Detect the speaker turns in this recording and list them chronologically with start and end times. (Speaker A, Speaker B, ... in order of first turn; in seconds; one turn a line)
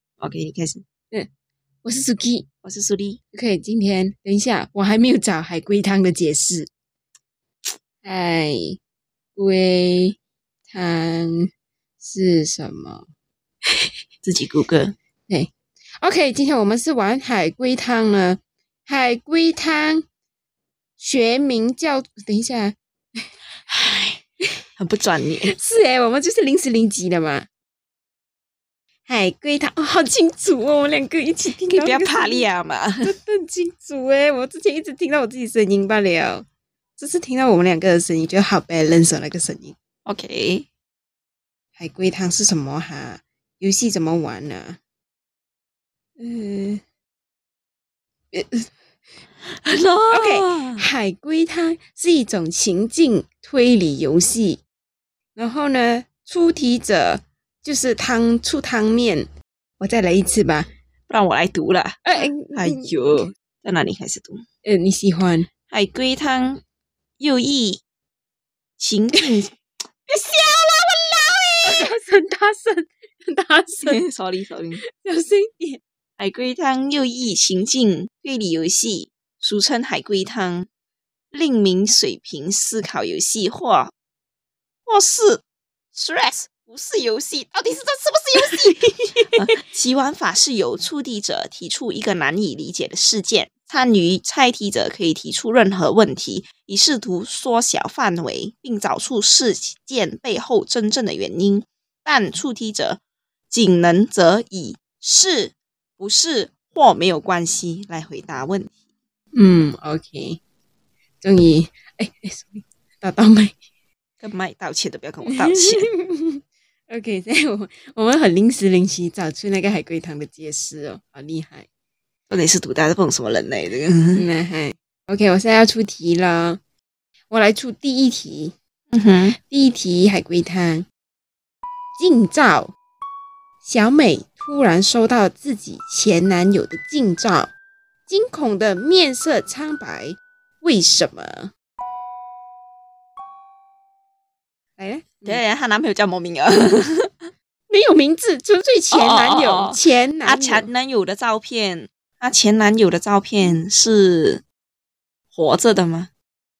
Speaker A: 0.2-0.8
Speaker B: 1.8-2.5
Speaker A: 2.6-3.2
Speaker B: 3.3-6.7
Speaker B: 8.0-8.8
Speaker B: 9.3-13.1
Speaker A: 14.2-14.9
Speaker B: 16.0-20.0
Speaker B: 21.0-24.6
Speaker A: 24.8-25.5
Speaker B: 25.5-27.5
Speaker B: 29.1-32.5
Speaker A: 31.7-33.1
Speaker B: 33.0-36.5
Speaker B: 37.0-39.7
Speaker A: 40.0-40.7
Speaker B: 41.8-44.8
Speaker B: 46.2-46.8
Speaker B: 48.3-48.7
Speaker A: 49.4-50.8
Speaker B: 50.1-54.6
Speaker B: 55.4-59.3
Speaker B: 59.8-60.7
Speaker A: 61.1-64.4
Speaker B: 62.0-63.2
Speaker B: 64.6-65.5
Speaker A: 65.7-66.6
Speaker A: 67.2-67.8
Speaker A: 68.8-71.9
Speaker B: 71.6-74.0
Speaker A: 73.8-74.8
Speaker B: 74.8-75.8
Speaker A: 76.2-80.7
Speaker A: 81.3-83.9
Speaker A: 84.9-85.4
Speaker A: 85.9-88.8
Speaker B: 88.3-89.4
Speaker A: 89.3-103.0
Speaker A: 103.5-108.7
Speaker B: 109.3-110.4
Speaker B: 111.2-113.6
Speaker A: 114.2-115.9
Speaker B: 115.2-121.7
Speaker A: 122.3-124.2
Speaker B: 124.1-126.6
Speaker B: 127.3-128.5
Speaker A: 128.9-129.4
Speaker B: 129.4-130.9
Speaker B: 132.0-132.7
Speaker B: 133.6-137.5
Speaker B: 138.1-141.5
Speaker B: 144.8-145.4
Speaker A: 145.2-147.3
Speaker B: 147.7-150.7
Speaker A: 148.9-154.4
Speaker A: 155.3-156.1